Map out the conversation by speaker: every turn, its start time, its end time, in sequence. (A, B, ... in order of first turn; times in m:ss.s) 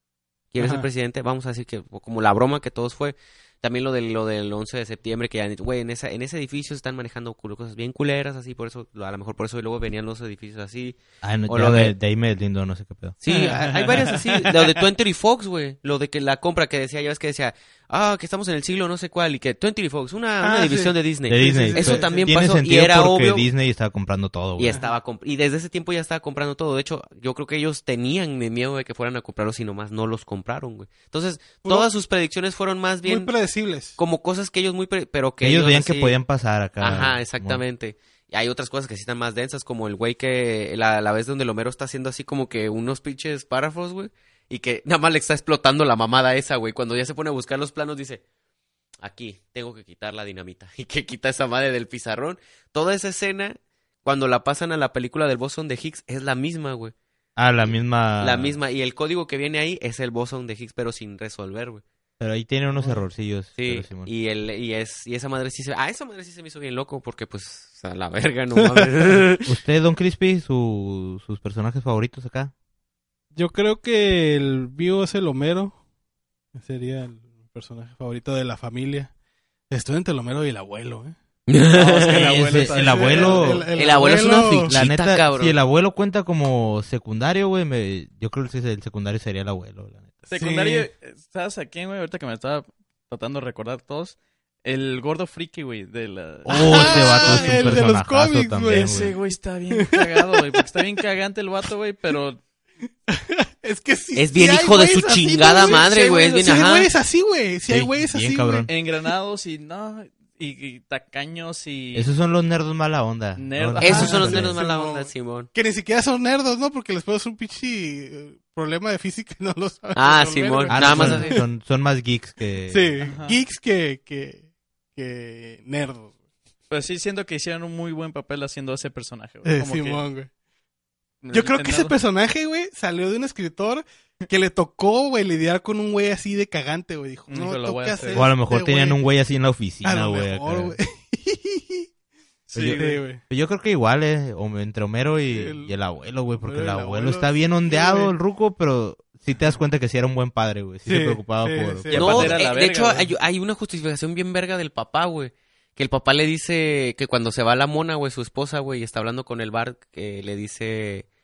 0:00.5-0:11.9 A
0:00.6-0:00.8 B
0:11.2-0:13.2 C
0:13.2-0:23.5 A
0:13.3-0:14.9 D
0:20.4-0:22.3 B
0:21.3-0:24.8 C
0:24.6-0:33.3 A
0:24.7-0:24.9 B
0:31.6-0:31.9 B
0:33.0-0:34.0 B
0:34.0-0:36.1 A
0:35.4-0:37.6 C
0:36.8-0:48.2 A
0:49.0-0:56.9 A
0:57.4-0:58.6 C
0:58.2-1:01.8 A
1:02.2-1:04.1 C
1:03.6-1:09.5 A
1:09.4-1:12.5 C
1:13.3-1:15.8 B
1:16.5-1:19.1 B
1:19.7-1:21.1 B
1:21.5-1:22.3 A
1:21.7-1:23.6 D
1:22.2-1:23.7 C
1:22.2-1:24.8 B
1:23.7-1:25.5 A
1:24.6-1:30.2 C
1:30.3-1:37.9 D
1:30.4-1:30.9 B
1:36.5-1:39.1 C
1:36.5-1:39.1 B
1:38.7-1:42.4 D
1:39.8-1:40.5 B
1:43.1-1:48.9 B
1:44.2-1:46.9 A
1:47.7-1:48.7 C
1:48.7-1:52.1 D
1:51.9-1:54.6 C
1:53.4-1:54.5 D
1:53.8-1:55.5 A
1:53.8-2:01.4 B
2:00.0-2:01.3 A
2:00.7-2:01.3 D
2:00.7-2:02.9 C
2:02.7-2:06.1 B
2:03.0-2:03.4 D
2:06.7-2:10.0 D
2:09.4-2:10.3 B
2:11.2-2:12.0 D
2:11.3-2:19.0 B
2:17.3-2:18.3 D
2:18.1-2:20.8 C
2:19.8-2:21.9 B
2:22.5-2:23.0 D
2:22.5-2:32.4 C
2:22.7-2:23.2 B
2:25.3-2:25.7 B
2:26.4-2:28.1 B
2:30.8-2:32.4 B
2:31.9-2:41.0 A
2:31.9-2:33.1 D